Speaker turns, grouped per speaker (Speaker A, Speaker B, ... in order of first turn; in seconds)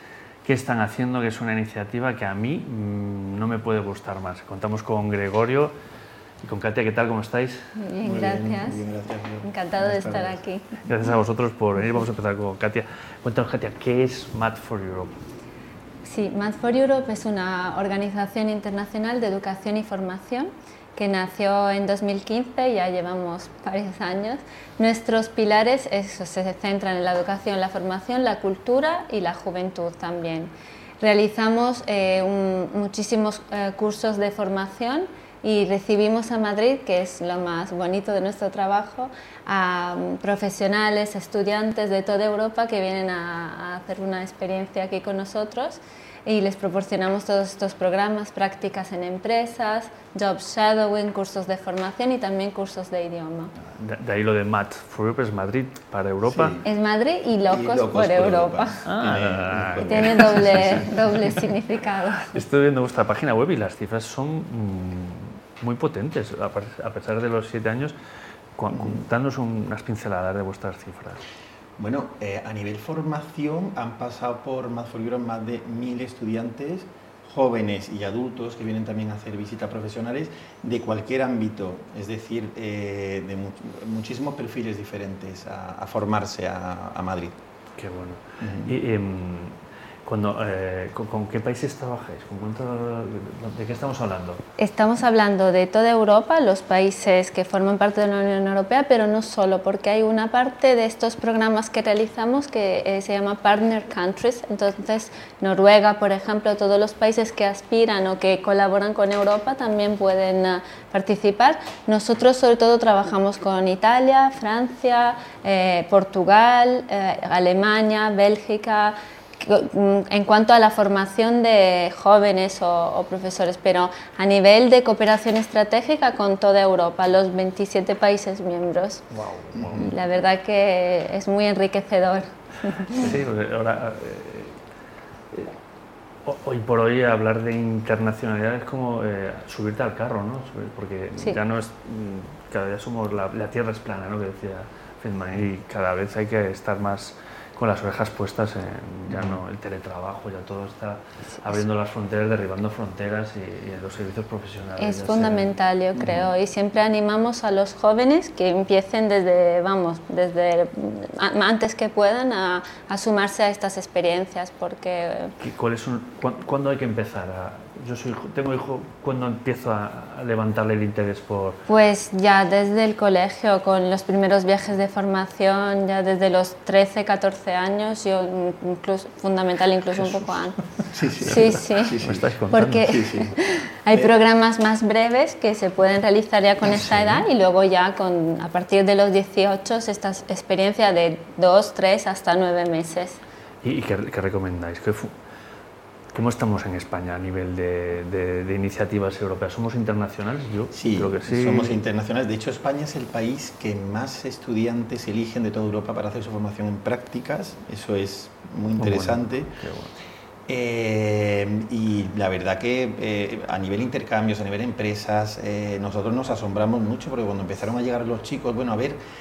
Speaker A: 0.4-5.7, 6.4-7.7, 10.8-15.2, 53.6-56.5, 58.9-61.1, 62.2-68.0, 68.5-71.2, 87.8-94.4, 129.1-129.9, 132.9-134.6, 136.2-155.5, 165.4-171.6, 180.0-180.4, 181.2-182.9, 186.8-187.2, 193.6-195.1, 196.1-201.8, 208.8-209.9
Speaker B: 7.8-8.8, 9.4-10.7, 16.0-53.5, 56.6-58.9, 59.8-62.4, 94.6-129.0, 129.7-133.1, 154.8-165.4, 171.7-180.5, 181.2-193.2
Speaker C: 8.0-10.4, 56.2-56.7, 57.5-60.9, 68.7-69.0, 71.8-87.3, 88.4-88.7, 129.6-129.9, 149.1-149.4, 180.9-182.2, 182.8-183.3, 200.7-209.6, 210.5-219.0